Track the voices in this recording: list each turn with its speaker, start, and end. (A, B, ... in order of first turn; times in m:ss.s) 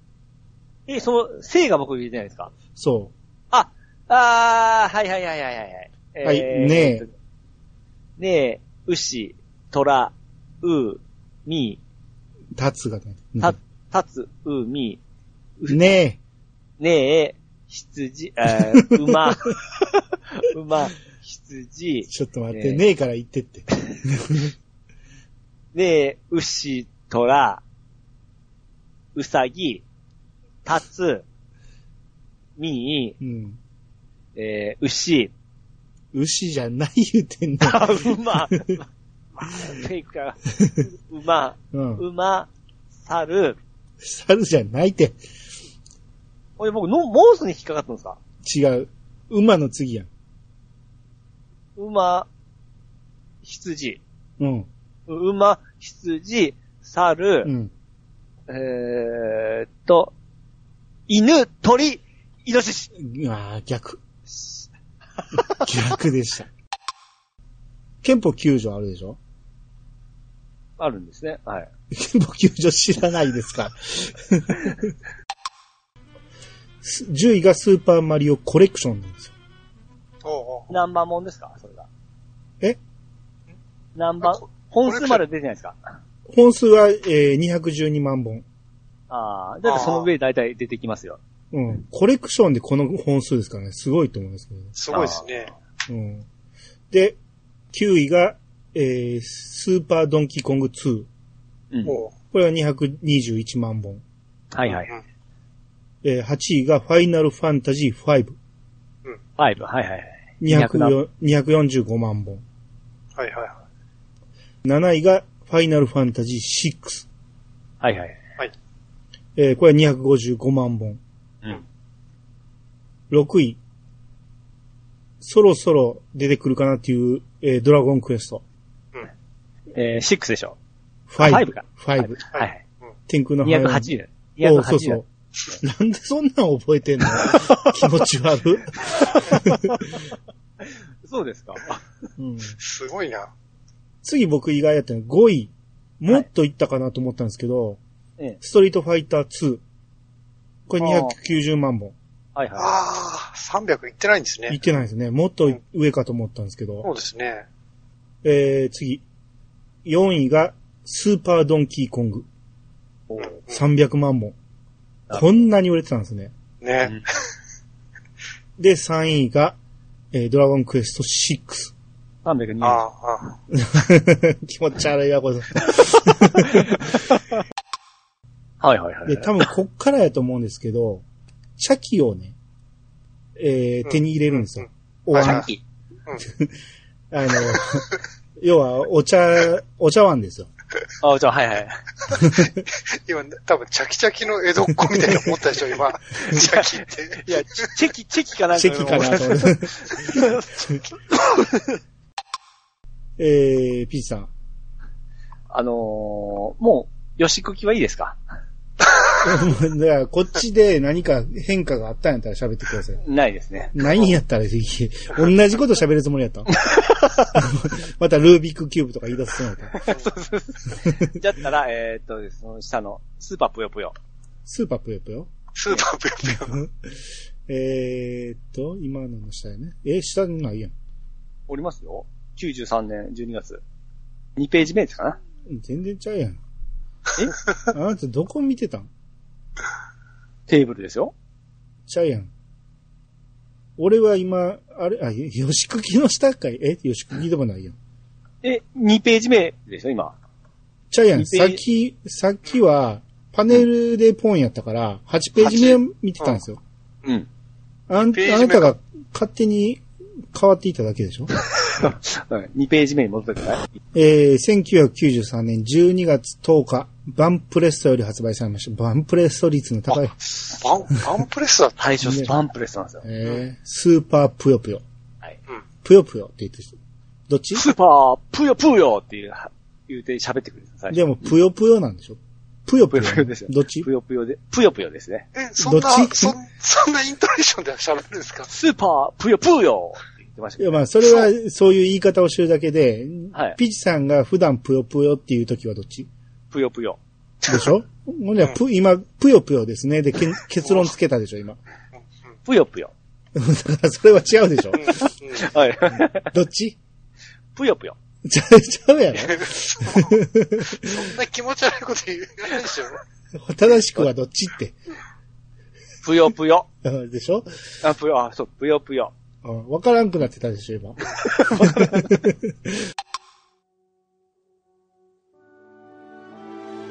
0:00.9-0:02.6 A
0:02.8-0:03.1 B
0:03.5-0:07.1 A
0:06.2-0:07.1 B
0:08.2-0:11.8 A
0:12.6-0:13.6 B
0:13.4-0:15.0 A
0:15.6-0:16.0 A
0:15.7-0:16.2 B
0:16.8-0:19.6 A
0:18.8-0:19.3 B
0:20.3-0:22.8 A
0:22.1-0:24.5 B
0:25.7-0:27.6 A
0:29.2-0:29.8 A
0:30.6-0:31.2 A
0:32.6-0:33.2 A
0:33.2-0:33.6 B
0:34.4-0:35.3 A
0:36.1-0:38.0 B
0:37.6-0:43.6 A
0:41.7-0:42.0 B
0:44.0-0:45.2 B
0:46.6-0:48.2 A
0:48.4-0:50.1 B
0:51.8-0:52.3 A
0:53.4-0:54.0 A
0:54.4-0:54.7 B
0:55.1-0:57.5 A
0:57.4-0:57.7 B
0:58.5-1:00.1 A
1:01.1-1:02.9 A
1:03.0-1:04.0 B
1:05.3-1:06.5 B
1:08.0-1:09.2 B
1:10.8-1:11.7 A
1:11.9-1:14.9 B
1:16.8-1:19.3 B
1:20.2-1:20.7 C
1:20.7-1:21.9 A
1:24.0-1:25.8 A
1:24.2-1:25.2 C
1:26.3-1:28.4 B
1:29.1-1:31.2 A
1:29.6-1:30.1 C
1:31.5-1:34.8 B
1:34.8-1:35.5 C
1:34.9-1:35.3 A
1:35.9-1:36.3 B
1:36.9-1:37.2 B
1:37.7-1:41.1 B
1:41.7-1:42.0 A
1:41.8-1:42.2 C
1:42.3-1:44.0 B
1:44.5-1:44.9 A
1:46.0-1:48.4 B
1:49.4-1:51.0 A
1:50.4-1:52.4 B
1:53.2-1:53.6 C
1:54.6-1:57.1 B
1:57.8-1:58.2 A
1:59.4-2:01.0 B
2:03.1-2:03.6 B
2:05.2-2:08.4 B
2:09.7-2:10.6 A
2:11.1-2:12.2 B
2:11.2-2:12.6 A
2:13.1-2:19.9 B
2:13.4-2:15.0 A
2:17.3-2:17.6 A
2:19.0-2:19.7 A
2:20.6-2:21.8 A
2:22.2-2:22.6 B
2:22.6-2:23.3 C
2:24.0-2:27.8 B
2:28.4-2:29.6 B
2:30.7-2:32.0 B
2:30.8-2:31.2 A
2:32.4-2:32.8 A
2:32.6-2:34.6 C
2:34.5-2:36.9 B
2:36.8-2:37.5 C
2:38.2-2:39.0 B
2:39.8-2:42.3 B
2:43.1-2:43.4 A
2:43.2-2:43.6 C
2:43.5-2:44.4 B
2:45.1-2:46.3 B
2:46.6-2:47.1 C
2:48.6-2:49.6 B
2:50.1-2:51.7 B
2:52.2-2:52.8 A
2:52.6-2:53.4 C
2:53.6-2:56.9 B
2:56.4-2:57.4 A
2:58.6-2:59.5 A
2:59.1-3:01.0 B
3:01.6-3:02.4 B
3:03.4-3:05.5 B
3:04.6-3:05.5 C
3:05.2-3:05.6 A
3:06.2-3:06.5 B
3:07.1-3:10.5 B
3:11.0-3:11.8 A
3:12.1-3:12.6 B
3:13.0-3:17.3 C
3:16.2-3:21.8 A
3:18.6-3:20.4 B
3:23.2-3:24.3 B
3:25.5-3:28.2 A
3:29.2-3:33.0 B
3:33.0-3:34.1 A
3:33.7-3:36.5 B
3:36.6-3:37.3 A
3:37.3-3:39.8 B
3:39.7-3:44.0 A
3:44.5-3:45.3 B
3:45.6-3:46.6 C
3:46.2-3:46.9 B
3:47.5-3:50.7 B
3:51.5-3:53.6 A
3:54.4-3:55.2 A
3:55.4-3:56.4 B
3:57.7-3:58.9 B
4:00.5-4:01.1 A
4:01.9-4:02.3 B
4:03.8-4:07.8 B
4:08.4-4:10.2 A
4:10.9-4:16.6 B
4:11.2-4:11.6 A
4:15.4-4:15.8 A
4:17.9-4:21.3 B
4:18.0-4:18.7 C
4:21.6-4:23.6 A
4:23.9-4:30.2 B
4:30.4-4:31.9 C
4:31.8-4:33.0 A
4:32.0-4:32.3 B
4:33.0-4:34.8 B
4:35.8-4:36.7 B
4:37.3-4:37.6 B
4:37.6-4:41.0 A
4:40.9-4:43.9 B
4:42.9-4:45.3 A
4:45.4-4:48.5 C
4:45.6-4:46.4 B
4:48.5-4:50.8 A
4:50.6-4:56.1 B
4:53.3-4:53.6 A
4:56.5-4:57.0 A
4:57.5-5:01.6 B
5:02.5-5:02.9 A
5:03.4-5:05.1 B
5:04.8-5:05.4 C
5:05.4-5:06.3 A
5:06.0-5:06.8 B
5:07.6-5:08.0 A
5:08.2-5:11.1 B
5:09.4-5:10.1 C
5:10.8-5:13.0 C
5:13.3-5:14.8 B
5:16.0-5:16.7 A
5:16.8-5:17.5 B
5:17.8-5:19.1 A
5:19.4-5:22.7 B
5:21.2-5:22.2 A